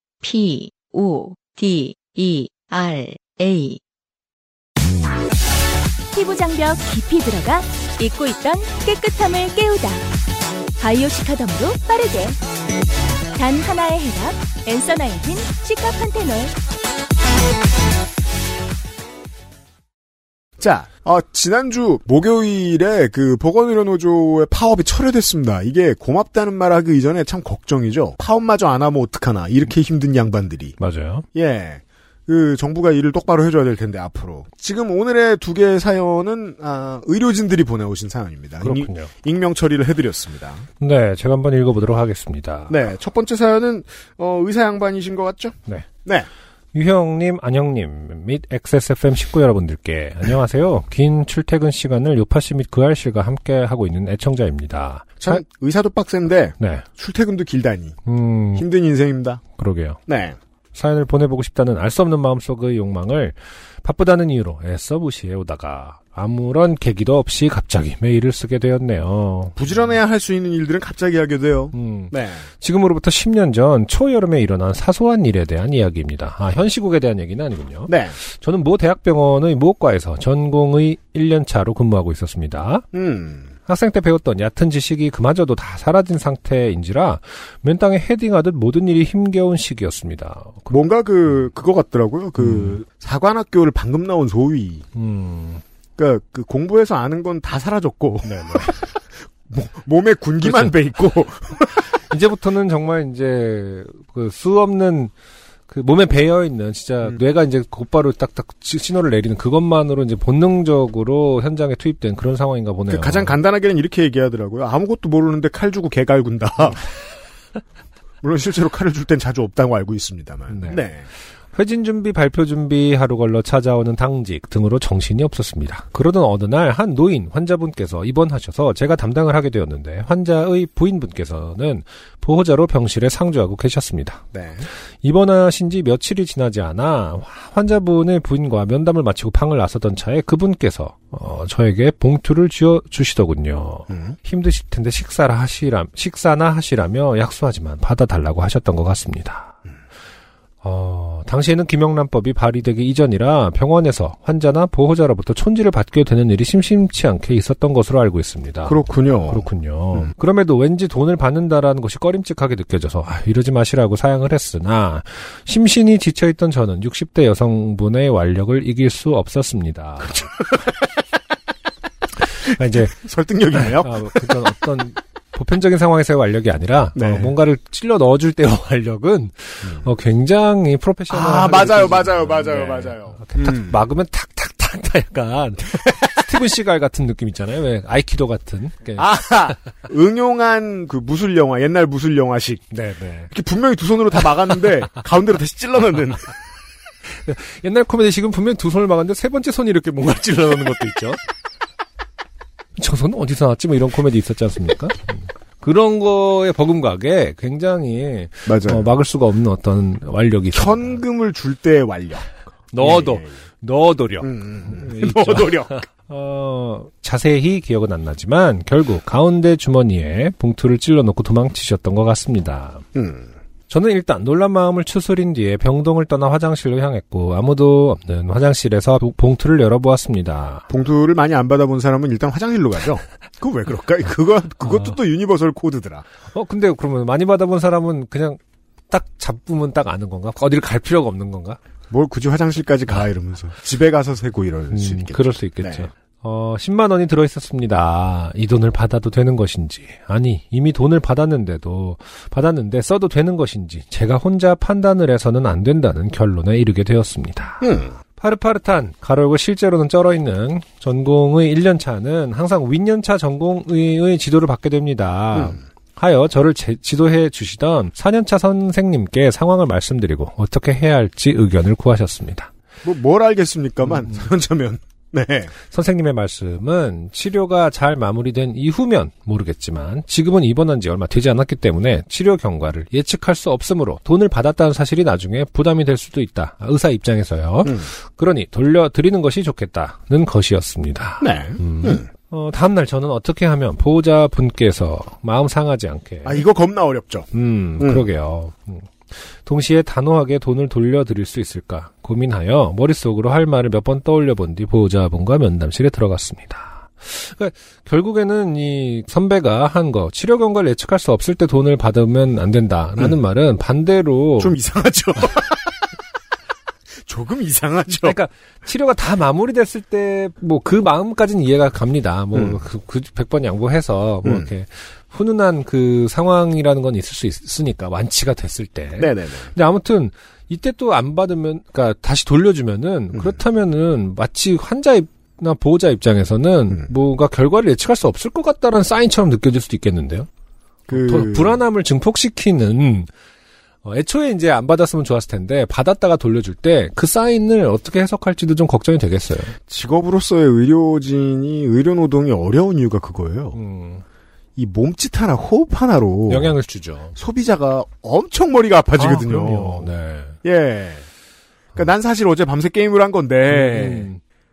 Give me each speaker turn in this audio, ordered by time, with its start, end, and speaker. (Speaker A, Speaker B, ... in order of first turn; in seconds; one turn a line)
Speaker A: 0.2-3.8
Speaker B: 6.1-10.0
Speaker B: 10.8-12.4
Speaker B: 13.3-16.5
Speaker C: 20.6-30.8
Speaker D: 30.8-31.3
Speaker C: 31.3-40.6
Speaker D: 38.6-39.1
Speaker D: 40.8-42.8
Speaker C: 42.7-45.5
Speaker D: 46.7-55.4
Speaker C: 55.2-58.0
Speaker D: 56.6-56.9
Speaker D: 58.1-58.7
Speaker C: 58.6-59.4
Speaker D: 59.6-60.0
Speaker C: 60.1-60.4
Speaker D: 60.7-69.7
Speaker C: 69.6-72.5
Speaker D: 71.7-82.9
Speaker C: 77.9-78.2
Speaker C: 82.9-83.5
Speaker D: 83.7-90.9
Speaker C: 90.7-94.8
Speaker D: 92.4-92.8
Speaker D: 95.0-95.6
Speaker C: 96.0-101.9
Speaker D: 98.2-98.9
Speaker D: 100.4-100.7
Speaker D: 101.8-105.1
Speaker D: 105.7-113.4
Speaker C: 112.9-116.8
Speaker C: 118.2-121.1
Speaker D: 120.5-120.8
Speaker D: 121.5-134.2
Speaker C: 134.3-134.7
Speaker D: 135.0-149.6
Speaker D: 150.6-158.8
Speaker C: 158.7-160.1
Speaker D: 159.3-170.5
Speaker D: 172.5-173.0
Speaker C: 172.9-174.3
Speaker D: 173.6-189.1
Speaker C: 176.9-177.4
Speaker C: 181.1-183.8
Speaker C: 185.9-186.2
Speaker C: 189.0-192.6
Speaker D: 192.7-193.3
Speaker C: 193.3-196.3
Speaker D: 197.1-201.2
Speaker D: 202.8-211.0
Speaker C: 208.5-208.9
Speaker C: 210.5-213.3
Speaker D: 212.7-222.8
Speaker C: 214.2-215.8
Speaker C: 222.9-223.3
Speaker D: 223.7-230.7
Speaker C: 230.7-236.1
Speaker D: 234.7-234.9
Speaker D: 236.3-241.6
Speaker C: 241.9-245.9
Speaker D: 244.7-272.5
Speaker C: 257.6-257.9
Speaker C: 265.3-265.6
Speaker C: 272.8-275.5
Speaker D: 273.9-274.3
Speaker D: 275.7-296.4
Speaker C: 291.2-292.1
Speaker C: 296.2-297.3
Speaker D: 297.3-298.9
Speaker C: 297.8-298.1
Speaker D: 299.4-314.6
Speaker C: 314.4-315.6
Speaker C: 317.1-318.2
Speaker D: 318.0-340.3
Speaker C: 322.3-322.6
Speaker C: 324.2-324.5
Speaker C: 329.0-329.5
Speaker C: 340.9-341.6
Speaker D: 340.9-343.1
Speaker D: 343.8-349.6
Speaker C: 349.7-353.6
Speaker D: 353.5-354.0
Speaker C: 354.6-356.6
Speaker D: 356.3-357.2
Speaker C: 357.2-359.9
Speaker D: 359.0-360.4
Speaker C: 360.4-361.1
Speaker C: 361.7-364.1
Speaker D: 363.5-364.2